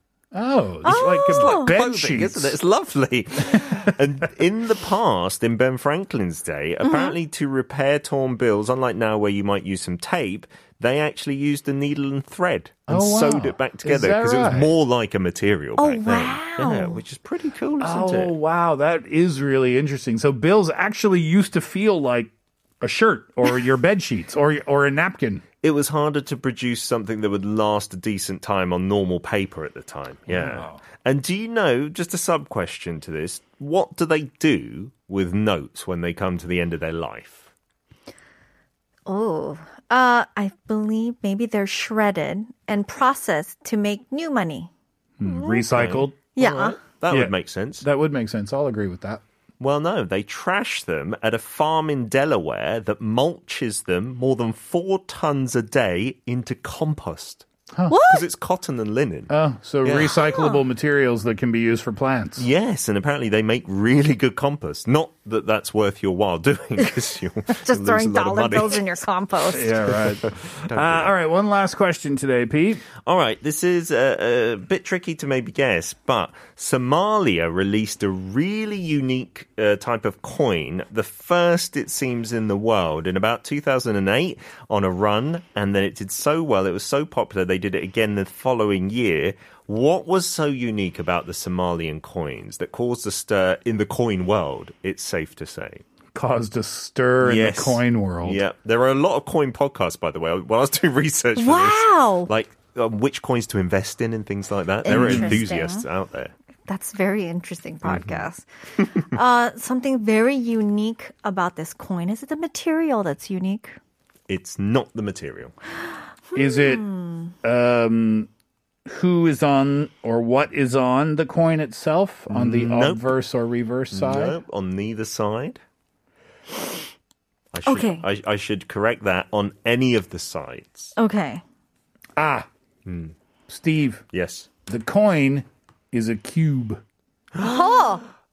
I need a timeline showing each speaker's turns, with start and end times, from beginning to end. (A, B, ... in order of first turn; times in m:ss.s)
0:00.3-0:02.6 A
0:00.8-0:01.7 B
0:00.9-0:18.3 C
0:03.4-0:03.9 A
0:06.8-0:07.1 B
0:12.9-0:14.7 A
0:15.8-0:17.0 B
0:17.8-0:25.4 A
0:25.6-0:37.5 C
0:30.3-0:30.8 A
0:39.1-0:44.7 B
0:45.2-0:46.2 A
0:45.3-0:45.6 B
0:45.6-0:47.8 C
0:46.4-0:46.8 B
0:47.1-0:49.2 A
0:49.6-0:57.5 C
0:57.7-0:58.0 A
0:57.9-0:58.2 B
0:58.1-1:00.2 C
0:59.3-1:02.5 A
1:00.2-1:00.6 B
1:02.4-1:09.0 C
1:07.5-1:09.8 B
1:09.5-1:12.8 A
1:09.9-1:11.1 C
1:13.0-1:35.8 C
1:36.1-1:38.4 A
1:37.2-1:46.3 C
1:41.4-1:42.3 B
1:44.8-1:45.8 B
1:44.9-1:45.4 A
1:46.7-1:48.5 B
1:49.0-1:53.8 B
1:54.3-1:55.5 C
1:56.3-1:57.3 B
1:56.4-1:56.9 A
1:57.4-1:58.3 A
1:58.9-2:04.4 A
2:02.3-2:03.1 C
2:03.9-2:05.6 C
2:07.5-2:10.9 C
2:07.7-2:08.0 B
2:11.0-2:11.4 B
2:12.2-2:12.5 A
2:12.9-2:13.1 C
2:13.5-2:14.0 A
2:14.1-2:14.5 C
2:14.7-2:16.8 A
2:17.4-2:17.8 C
2:17.4-2:18.0 B